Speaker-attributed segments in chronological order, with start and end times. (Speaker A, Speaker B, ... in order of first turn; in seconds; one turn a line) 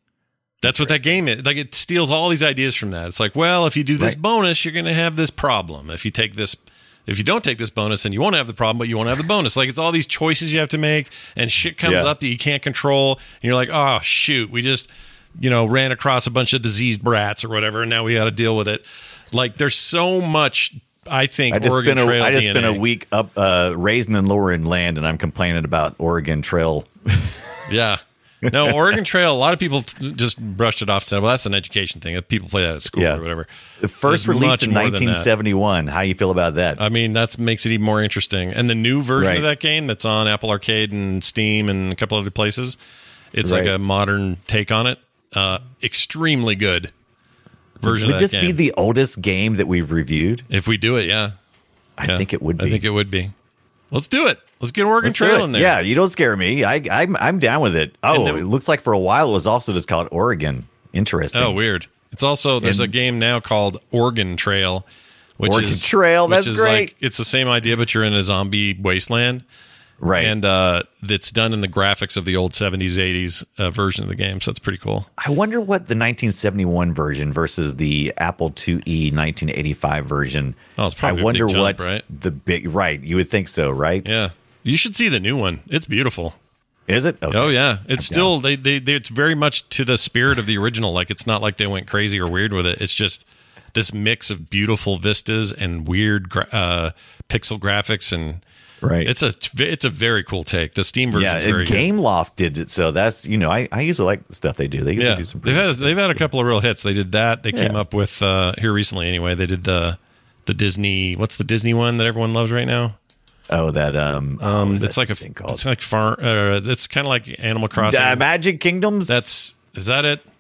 Speaker A: 0.6-22.8
Speaker B: 0.6-1.2
Speaker B: 11.8-12.1
Speaker B: 21.5-27.3
Speaker A: 27.7-33.5
Speaker B: 28.5-28.8
Speaker B: 32.9-33.2
Speaker B: 33.8-36.8
Speaker A: 34.1-35.3
Speaker A: 36.8-42.8
Speaker B: 39.2-39.5
Speaker A: 43.3-46.9
Speaker B: 43.4-43.7
Speaker B: 47.8-50.5
Speaker A: 47.8-48.6
Speaker A: 50.5-51.4
Speaker B: 52.0-52.8
Speaker A: 52.0-53.3
Speaker A: 53.9-55.8
Speaker B: 55.0-61.6
Speaker A: 58.1-58.5
Speaker A: 61.3-64.9
Speaker B: 62.6-62.9
Speaker A: 65.4-69.4
Speaker B: 65.4-66.9
Speaker B: 70.0-70.3
Speaker A: 70.2-75.1
Speaker B: 75.2-84.1
Speaker A: 80.8-82.0
Speaker A: 84.0-86.4
Speaker B: 86.9-88.3
Speaker A: 87.3-98.4
Speaker B: 98.8-99.1
Speaker A: 99.0-101.9
Speaker B: 101.1-106.2
Speaker A: 105.0-113.0
Speaker B: 107.5-107.8
Speaker B: 113.5-115.6
Speaker A: 114.4-118.2
Speaker B: 117.8-119.2
Speaker A: 119.1-120.2